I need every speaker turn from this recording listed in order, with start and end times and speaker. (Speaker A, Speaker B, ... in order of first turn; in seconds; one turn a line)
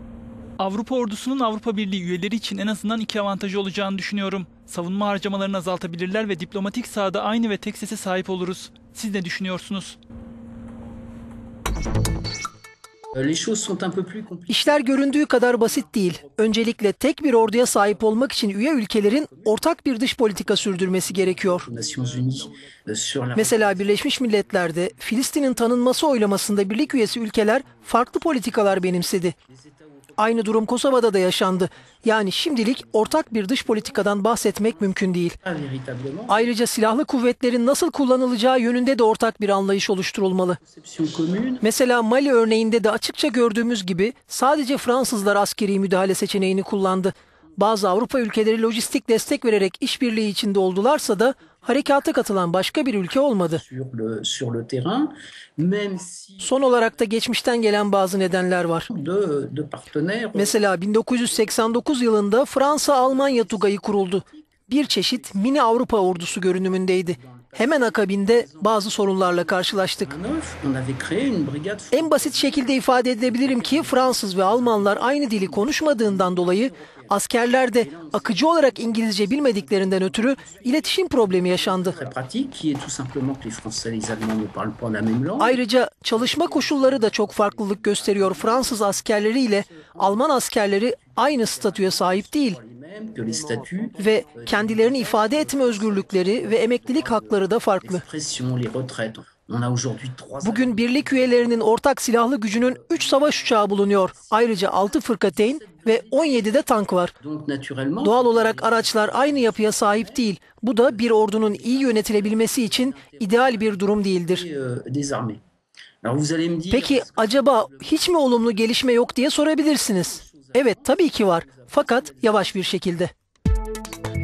Speaker A: 0.6-10.0
Speaker B: 13.1-16.6
Speaker C: 14.5-21.7
Speaker B: 17.4-18.4
Speaker B: 19.1-19.6
Speaker B: 21.1-24.1
Speaker C: 23.3-29.4
Speaker B: 25.9-36.5
Speaker C: 30.2-35.4
Speaker C: 36.3-40.6
Speaker B: 40.6-41.6
Speaker C: 41.6-53.6
Speaker B: 53.4-57.1
Speaker C: 56.4-58.9
Speaker B: 58.9-61.8
Speaker C: 60.3-70.2
Speaker B: 62.5-77.2
Speaker C: 71.9-82.0
Speaker B: 77.7-90.4
Speaker C: 85.4-92.6
Speaker B: 90.9-101.7
Speaker C: 94.0-98.0
Speaker C: 100.4-107.1
Speaker B: 102.5-110.2
Speaker C: 108.0-114.4
Speaker B: 110.8-115.4
Speaker B: 116.0-118.7
Speaker C: 116.7-123.1
Speaker B: 119.9-122.7